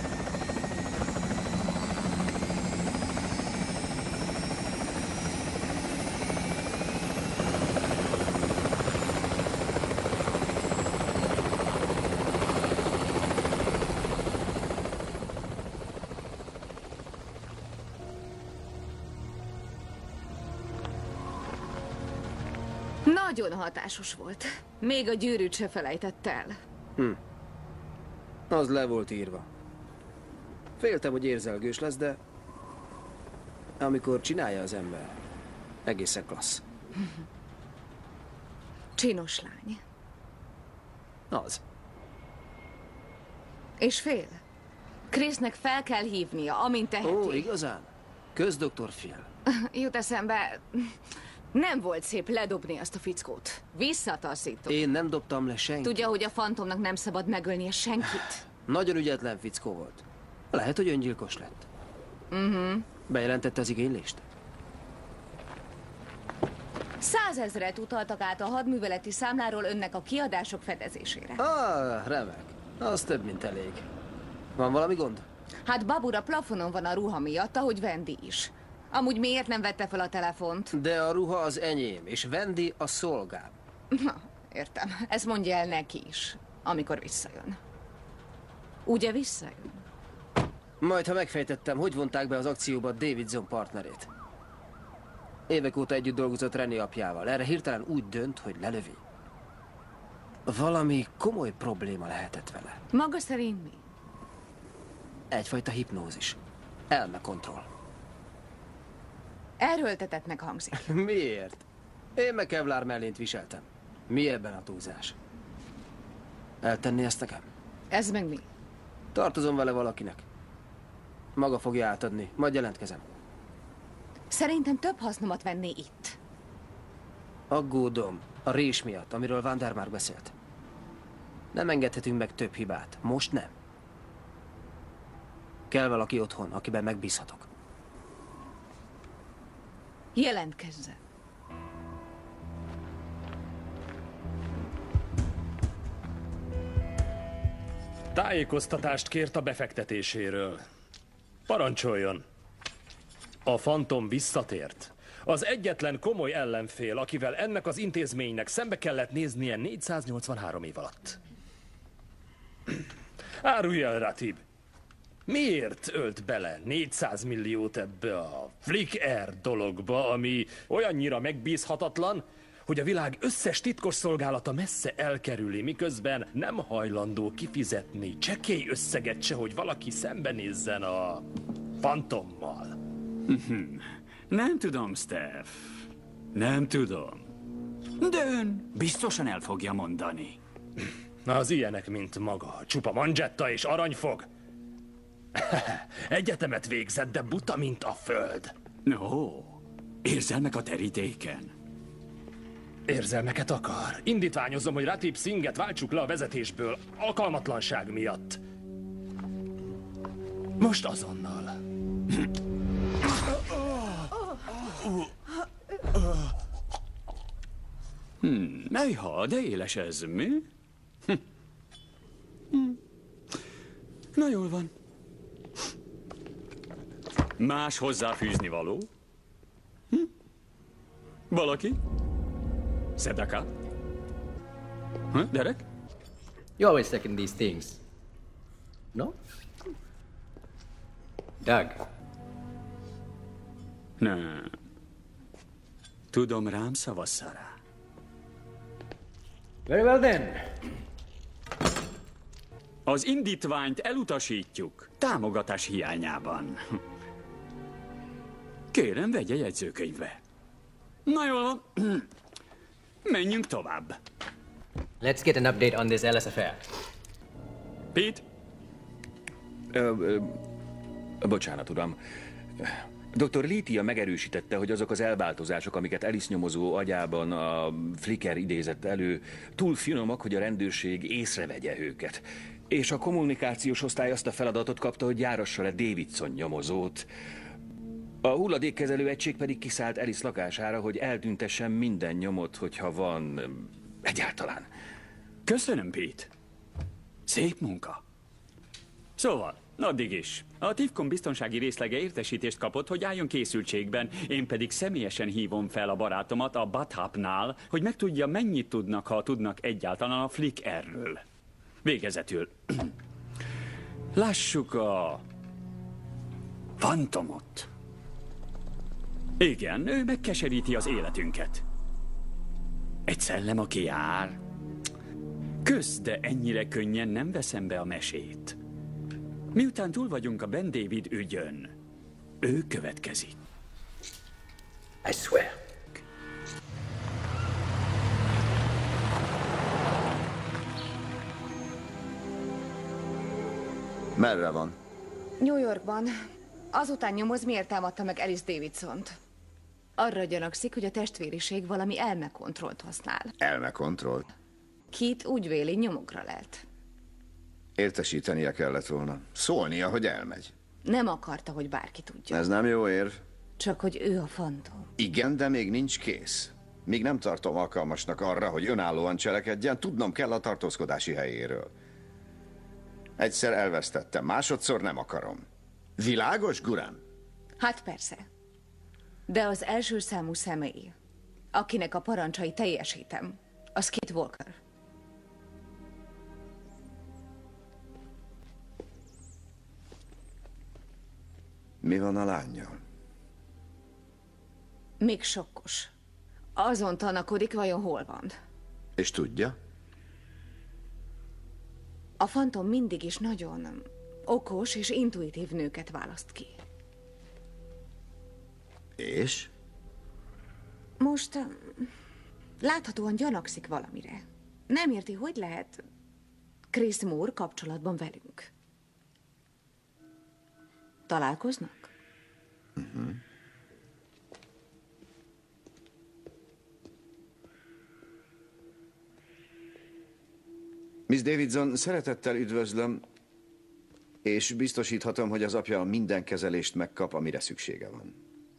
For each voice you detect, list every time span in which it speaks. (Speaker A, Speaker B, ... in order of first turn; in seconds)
Speaker A: 23.1-26.6, 39.0-39.8, 43.8-44.4, 45.1-47.5, 49.5-51.0, 51.5-54.9, 55.8-58.4, 62.3-62.9, 67.0-71.4, 75.7-80.7, 83.9-87.6, 88.9-89.8, 102.9-103.8, 109.6-110.9, 117.9-118.5, 124.3-126.2, 140.2-141.0, 345.4-346.1, 346.7-349.2, 350.0-353.3, 354.9-356.6, 360.8-362.4, 363.6-364.9, 377.6-378.3, 379.3-380.9, 381.5-384.6, 395.0-395.9, 396.6-398.4, 402.2-406.6, 411.0-411.9, 412.6-415.8, 416.7-418.5, 421.1-421.9
Speaker B: 28.5-29.5, 30.8-32.2, 33.8-35.2, 35.9-36.6, 41.3-41.6, 47.0-49.3, 54.7-56.1, 58.6-61.7, 63.1-64.2, 71.4-73.8, 74.6-75.2, 80.7-83.5, 90.8-94.1, 95.5-99.0, 100.5-102.8, 105.3-106.4, 106.9-107.7, 110.8-111.6, 112.2-115.2, 116.6-117.5, 119.1-120.2, 121.4-123.0, 127.5-130.3, 131.5-133.5, 135.7-137.5
Speaker C: 148.1-150.7, 151.5-152.2, 153.5-161.2, 163.4-164.4, 165.3-181.3, 181.8-182.8, 191.2-194.3, 195.4-198.5, 202.9-208.4, 210.6-211.5
Speaker D: 183.3-187.3, 188.0-190.4, 198.9-201.5, 218.2-220.5, 224.2-224.7, 227.4-228.9, 231.3-231.8, 233.0-233.5, 235.1-235.6, 244.0-244.6, 246.1-247.6, 252.9-256.6, 258.7-260.2, 261.1-262.1, 263.1-264.0, 267.9-268.2, 295.4-296.3, 297.3-298.0, 299.2-311.2, 311.8-312.9, 314.1-315.2, 316.8-317.7, 319.4-321.6, 323.1-324.4, 325.6-328.6, 329.5-331.7, 332.4-333.4
Speaker E: 236.6-237.8, 241.4-241.8, 249.7-250.5, 265.0-266.6, 335.1-335.5
Speaker F: 269.7-270.4, 271.2-272.0, 272.6-287.1, 288.2-294.7
Speaker G: 344.1-344.8, 353.4-354.3, 357.8-360.5, 362.3-363.2, 365.0-371.7, 373.2-375.5, 376.0-377.0, 391.8-392.8, 399.0-399.6, 409.0-409.5, 422.8-423.2, 431.1-433.1, 434.2-438.2